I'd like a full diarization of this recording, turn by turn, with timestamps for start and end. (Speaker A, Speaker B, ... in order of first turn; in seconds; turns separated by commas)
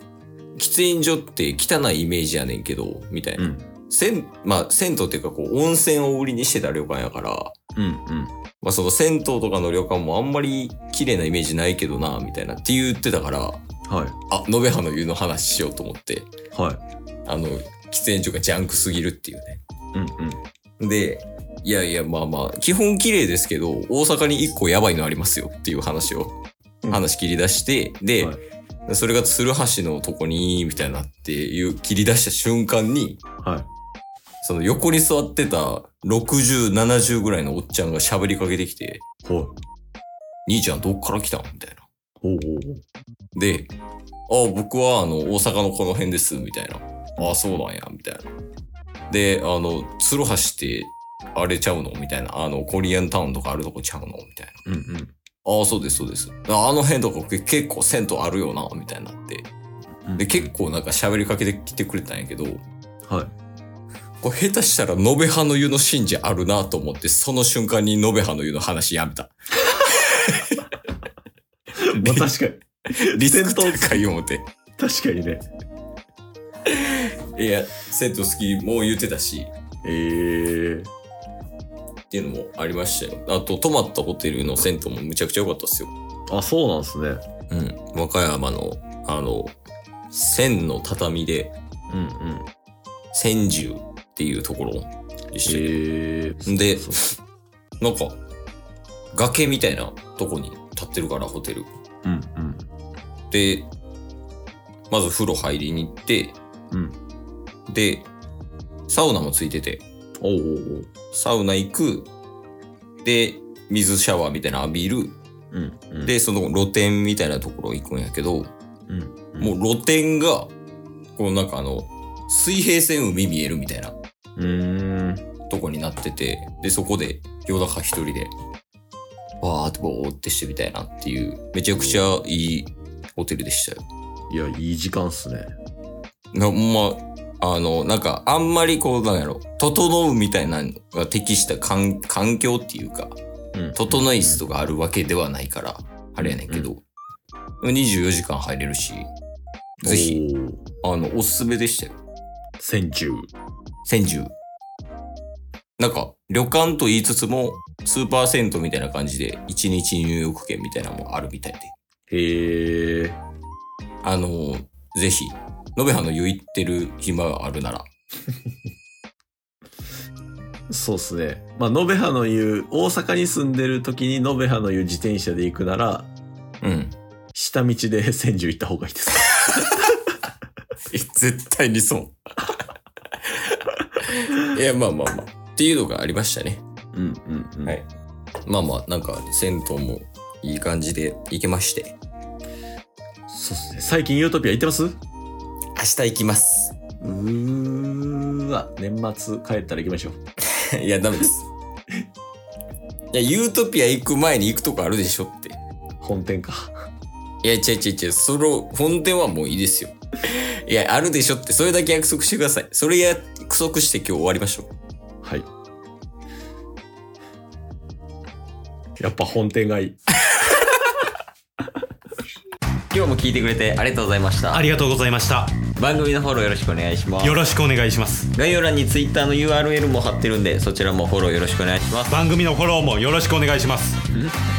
Speaker A: 0.6-7.5, Speaker B: 3.4-3.7, Speaker B: 7.7-8.3, Speaker A: 8.6-13.6, Speaker B: 13.9-14.2, Speaker A: 14.3-16.3, Speaker B: 16.5-16.8, Speaker A: 17.2-19.6, Speaker B: 19.9-20.4, Speaker A: 20.8-26.3, Speaker A: 26.9-33.2, Speaker B: 33.4-33.7, Speaker A: 34.4-39.0, Speaker B: 39.2-39.5, Speaker A: 40.5-41.8, Speaker B: 42.2-42.8, Speaker A: 43.3-43.7, Speaker A: 44.3-48.3, Speaker B: 47.2-47.4, Speaker A: 49.1-54.6, Speaker B: 54.6-55.1, Speaker A: 55.4-59.5, Speaker B: 60.0-60.5, Speaker A: 60.1-62.6, Speaker B: 63.0-63.3, Speaker A: 64.2-70.7, Speaker B: 71.9-74.0, Speaker A: 72.0-72.3, Speaker A: 72.9-74.5, Speaker B: 74.8-75.4, Speaker A: 76.7-79.5, Speaker B: 79.8-80.9, Speaker A: 82.1-85.9, Speaker B: 86.3-87.2, Speaker A: 87.5-89.5, Speaker A: 90.1-91.5, Speaker B: 91.9-92.5, Speaker A: 93.1-95.8, Speaker B: 95.4-97.0, Speaker A: 96.5-97.1, Speaker A: 97.8-98.2, Speaker A: 99.1-101.7, Speaker B: 102.0-102.7, Speaker A: 103.3-103.7, Speaker A: 104.9-106.4, Speaker B: 106.7-107.0, Speaker A: 107.7-108.1, Speaker A: 108.9-109.8, Speaker B: 110.2-110.9, Speaker A: 111.1-112.1, Speaker A: 113.0-115.2, Speaker B: 115.5-116.1, Speaker A: 116.0-118.5, Speaker B: 118.9-119.5, Speaker A: 119.4-120.5, Speaker A: 121.2-124.0, Speaker B: 124.3-125.2, Speaker A: 125.5-128.3, Speaker A: 129.4-133.8, Speaker B: 134.3-135.5, Speaker A: 136.3-143.2, Speaker B: 143.5-144.4, Speaker A: 143.7-146.8, Speaker B: 146.2-146.7, Speaker A: 147.6-149.1, Speaker B: 149.8-150.6, Speaker A: 149.8-150.2, Speaker A: 150.8-152.0, Speaker B: 152.6-153.3, Speaker A: 153.8-154.3, Speaker A: 155.8-161.7, Speaker B: 162.1-163.2, Speaker A: 164.0-167.8, Speaker B: 170.7-176.1, Speaker A: 176.6-176.9, Speaker B: 177.3-179.4, Speaker A: 180.9-182.2, Speaker A: 183.3-186.6, Speaker B: 186.9-187.8, Speaker A: 188.4-192.0, Speaker B: 193.3-195.0, Speaker A: 195.8-196.7, Speaker B: 197.0-200.2, Speaker A: 200.5-201.5, Speaker A: 203.1-205.6, Speaker B: 206.0-206.7, Speaker A: 207.4-214.7, Speaker B: 215.2-215.5, Speaker B: 219.0-220.0, Speaker A: 220.3-220.6, Speaker A: 222.9-224.7, Speaker C: 224.5-225.6, Speaker A: 225.8-227.4, Speaker C: 227.2-228.3, Speaker A: 228.3-232.2, Speaker C: 232.1-234.0